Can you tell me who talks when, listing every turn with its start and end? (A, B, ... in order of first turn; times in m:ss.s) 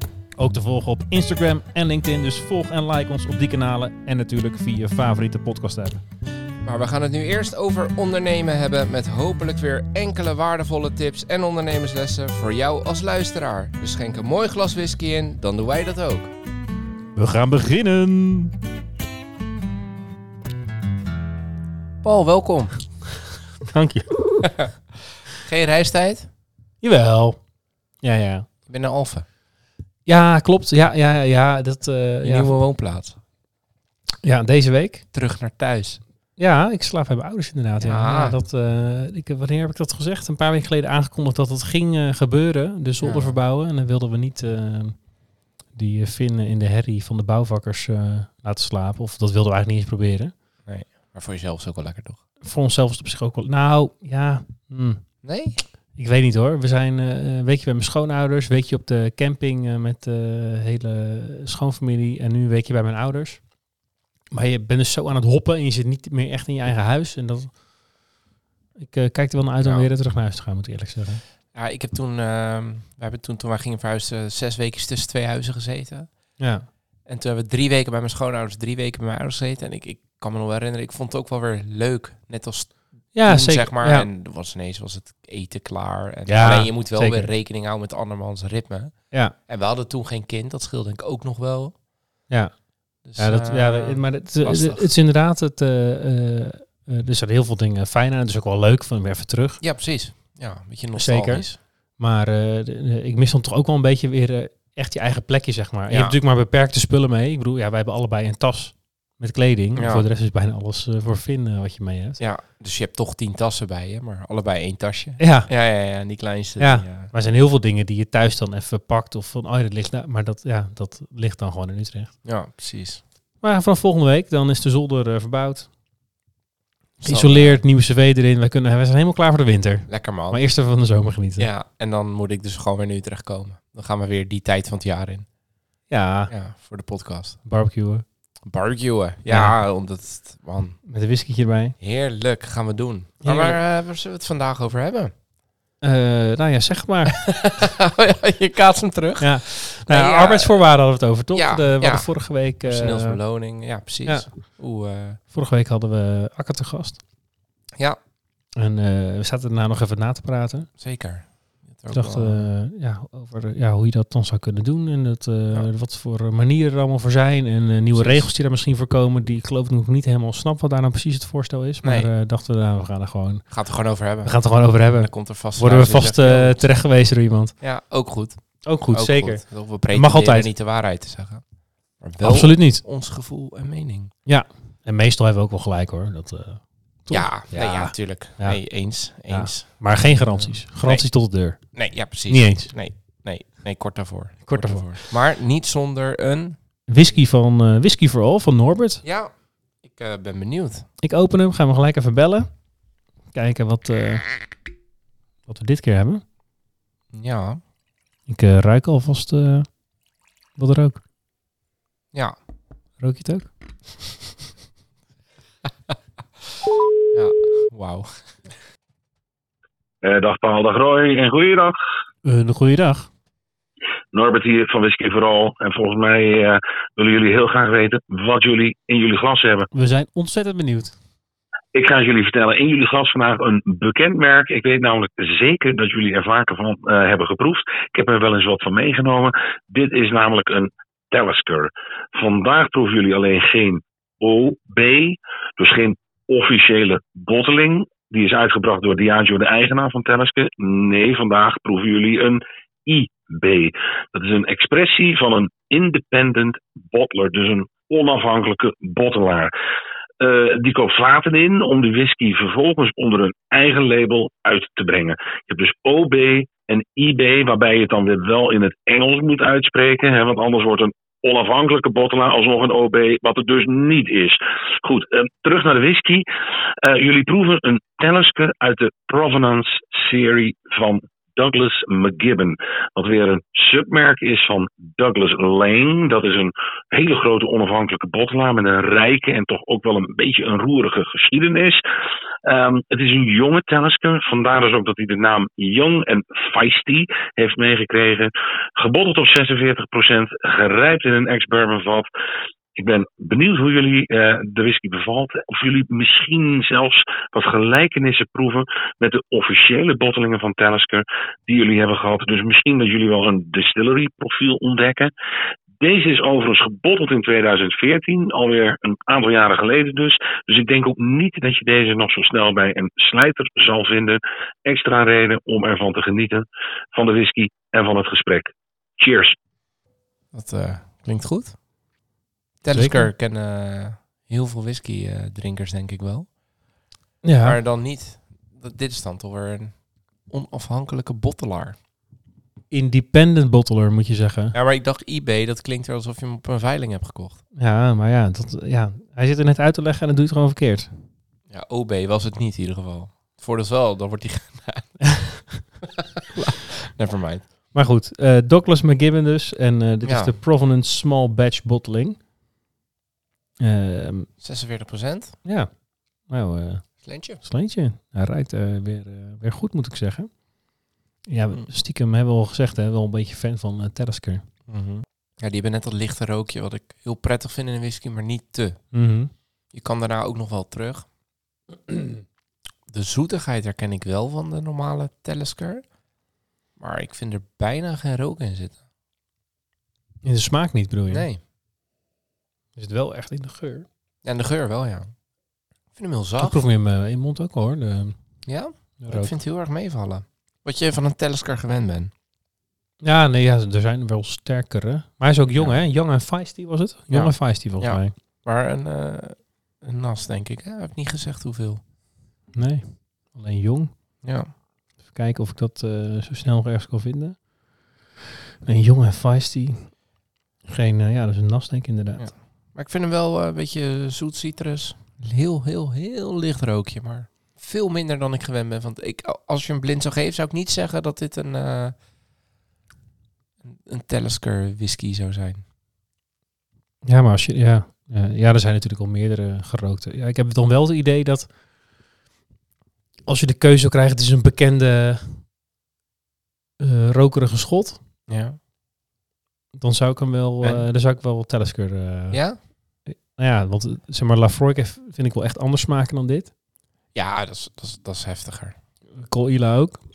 0:00.4-0:06.0 A
0:06.6-0:16.3 B
0:17.2-0:18.6 A
0:22.0-0:22.9 B
0:23.6-0:24.4 A
0:24.4-0:24.7 B
0:25.3-0:26.3 B
0:26.8-0:27.5 A
0:28.0-0:28.5 A
0:28.7-0:29.2 B
0:30.1-0:32.6 A
0:32.2-0:33.2 B
0:34.2-0:35.1 A
0:35.1-0:36.0 B
0:36.4-0:45.1 A
0:37.8-0:38.4 B
0:43.0-0:43.4 B
0:45.7-0:50.3 A
0:50.7-0:52.2 B
0:52.4-0:55.2 A
0:55.2-0:55.6 B
0:56.0-1:03.5 A
1:04.3-1:08.0 A
1:08.8-1:11.2 A
1:09.6-1:09.9 B
1:11.5-1:16.4 B
1:16.4-1:16.7 A
1:17.1-1:31.8 B
1:23.1-1:24.1 A
1:26.3-1:27.3 A
1:32.3-1:39.6 A
1:33.0-1:34.9 B
1:39.6-1:41.6 B
1:41.0-1:52.2 A
1:45.9-1:46.2 B
1:49.8-1:50.0 B
1:52.2-1:57.1 B
1:55.2-1:55.5 A
1:56.6-2:02.2 A
2:02.2-2:03.0 B
2:03.4-2:05.7 A
2:07.0-2:07.6 B
2:07.0-2:11.5 A
2:09.9-2:10.4 B
2:11.4-2:15.3 B
2:15.9-2:16.3 A
2:16.3-2:17.4 B
2:17.4-2:18.1 A
2:18.4-2:20.8 B
2:19.3-2:19.6 A
2:20.9-2:21.8 A
2:21.8-2:25.1 B
2:23.2-2:23.6 A
2:25.8-2:27.1 A
2:27.2-2:30.6 B
2:29.2-2:33.2 A
2:31.3-2:32.1 B
2:32.6-2:35.2 B
2:34.0-2:34.3 A
2:35.3-2:37.0 A
2:38.6-2:40.7 A
2:40.8-2:42.5 B
2:41.9-2:53.5 A
2:47.9-2:48.3 B
2:51.8-2:52.1 B
2:53.5-2:56.6 B
2:54.2-2:57.6 A
2:57.6-3:04.1 B
2:58.6-3:00.5 A
3:02.2-3:02.8 A
3:04.3-3:12.7 A
3:07.1-3:16.6 B
3:14.4-3:15.0 A
3:16.9-3:19.0 A
3:19.0-3:20.9 B
3:21.0-3:22.6 A
3:23.3-3:24.4 A
3:25.5-3:26.2 A
3:27.1-3:27.6 B
3:28.3-3:29.8 A
3:30.6-3:31.0 A
3:33.0-3:33.5 A
3:37.1-3:38.1 B
3:40.0-3:41.8 C
3:42.2-3:43.1 A
3:44.1-3:49.7 C
3:49.7-3:51.0 A
3:51.7-4:19.5 C
4:20.2-4:36.2 C
4:36.8-4:51.8 C
4:52.4-5:02.1 C
5:02.8-5:15.1 C
5:15.8-5:29.4 C
5:30.3-5:31.6 B
5:32.6-5:36.3 B
5:32.7-5:33.1 A
5:37.2-5:37.6 A
5:37.4-5:41.8 B
5:42.7-5:44.6 A
5:44.5-5:47.4 B
5:47.6-5:51.1 A
5:51.5-5:55.1 B
5:56.0-5:57.5 B
5:57.7-6:02.2 A
6:00.0-6:00.3 B
6:03.6-6:04.3 A
6:04.4-6:05.4 B
6:05.4-6:10.5 A
6:07.0-6:07.4 B
6:11.3-6:14.5 A
6:14.7-6:18.8 B
6:18.9-6:19.3 A
6:19.7-6:21.1 B
6:22.9-6:25.9 B
6:26.8-6:28.8 B
6:30.2-6:31.3 A
6:31.1-6:31.4 B
6:32.8-6:33.9 A
6:34.2-6:35.2 B
6:35.9-6:36.6 B
6:36.4-6:38.2 A
6:38.4-6:42.1 B
6:39.0-6:39.3 A
6:43.0-6:48.1 A
6:45.5-6:45.8 B
6:47.1-6:51.8 B
6:52.5-6:54.0 A
6:54.2-6:54.5 B
6:55.0-6:57.6 A
6:58.6-7:00.0 A
7:00.7-7:02.3 A
7:02.2-7:12.0 B
7:13.6-7:15.6 B
7:17.0-7:21.6 A
7:23.3-7:25.5 A
7:26.8-7:28.0 A
7:28.3-7:28.6 B
7:29.7-7:36.5 A
7:32.3-7:32.6 B
7:37.1-7:38.8 B
7:39.2-7:40.0 A